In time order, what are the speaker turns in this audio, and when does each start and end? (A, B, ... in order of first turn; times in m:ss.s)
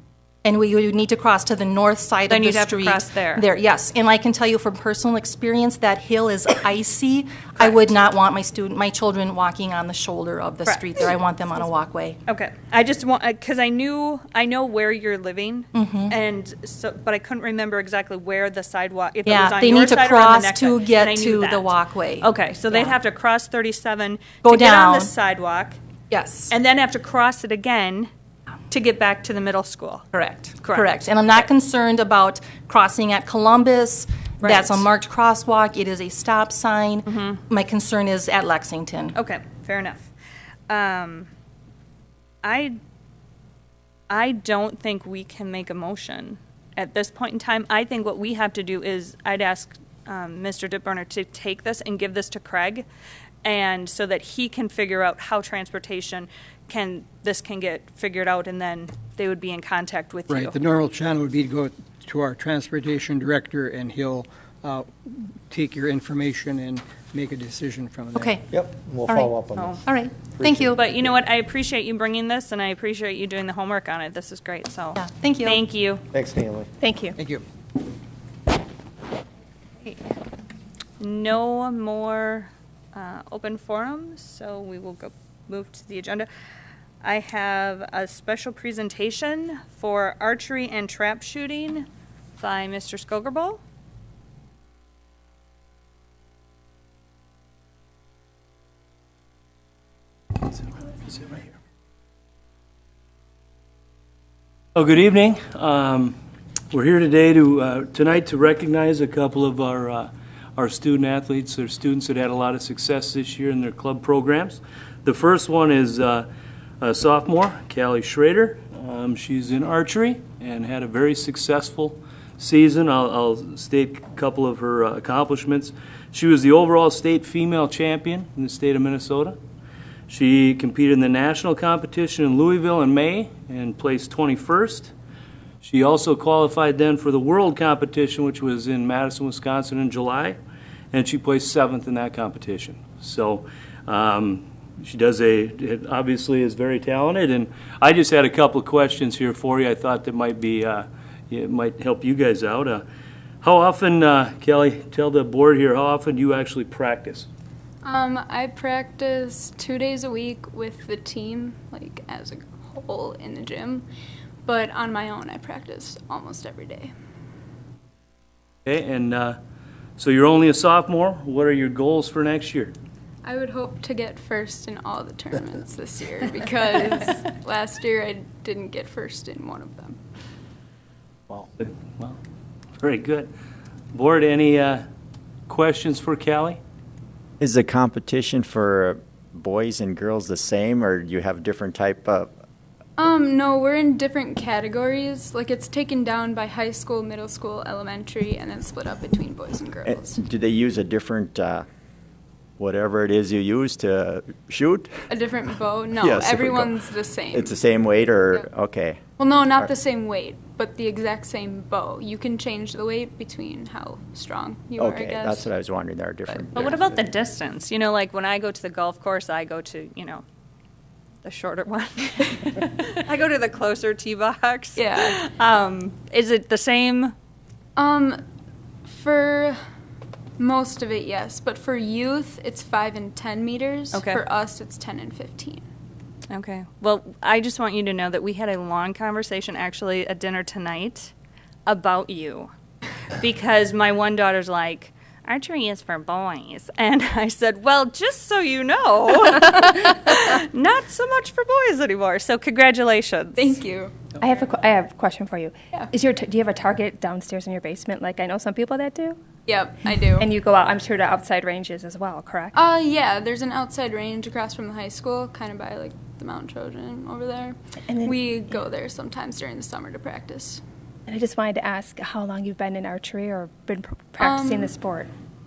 0:00.4-0:12.2 A
0:02.3-0:03.4 B
0:12.3-0:25.8 B
0:15.7-0:16.2 A
0:19.2-0:23.0 A
0:24.4-0:25.1 A
0:26.1-0:26.5 A
0:26.5-0:28.1 B
0:28.7-0:30.1 B
0:30.1-0:39.2 A
0:30.6-0:30.9 B
0:34.4-0:34.9 B
0:37.1-0:37.4 B
0:39.1-0:40.1 B
0:40.7-0:41.3 B
0:42.4-0:42.8 B
0:44.1-0:52.9 B
0:53.4-1:00.6 B
1:00.3-1:08.3 C
1:08.2-1:08.5 A
1:08.5-1:11.1 D
1:09.0-1:10.8 A
1:09.6-1:09.8 B
1:10.8-1:16.0 B
1:15.0-1:15.6 A
1:16.1-1:16.7 D
1:16.8-1:17.2 E
1:17.2-1:17.4 C
1:19.8-1:20.1 B
1:21.0-1:26.3 B
1:27.0-1:31.9 B
1:32.4-1:33.6 B
1:44.8-1:46.2 F
1:46.7-1:56.3 F
1:56.8-2:09.4 F
2:10.1-2:14.9 F
2:15.6-2:20.4 F
2:20.9-2:32.8 F
2:33.4-2:37.3 F
2:37.8-2:43.9 G
2:44.5-2:46.9 G
2:48.7-2:49.4 F
2:50.0-2:52.7 F
2:53.2-3:00.0 G
3:01.3-3:02.2 F
3:02.8-3:03.3 F
3:03.9-3:04.8 F
3:05.5-3:06.6 F
3:07.4-3:12.3 H
3:13.0-3:20.2 G
3:19.8-3:21.7 H
3:22.6-3:24.9 H
3:25.1-3:27.6 G
3:26.0-3:26.8 H
3:27.3-3:29.0 H
3:29.2-3:35.5 G
3:34.8-3:37.0 H
3:36.6-3:40.2 B
3:41.2-3:47.1 B
3:44.8-3:45.2 G
3:47.8-3:48.2 G
3:48.9-3:49.6 G
3:50.4-3:55.6 G
3:53.9-3:54.2 B
3:56.3-4:01.1 B
4:01.7-4:02.5 B
4:03.2-4:13.6 B
4:13.4-4:14.0 G
4:14.2-4:19.2 E
4:19.5-4:20.3 G
4:20.0-4:22.5 E
4:22.6-4:30.6 G
4:27.9-4:28.6 E
4:31.1-4:35.1 E
4:34.2-4:34.8 G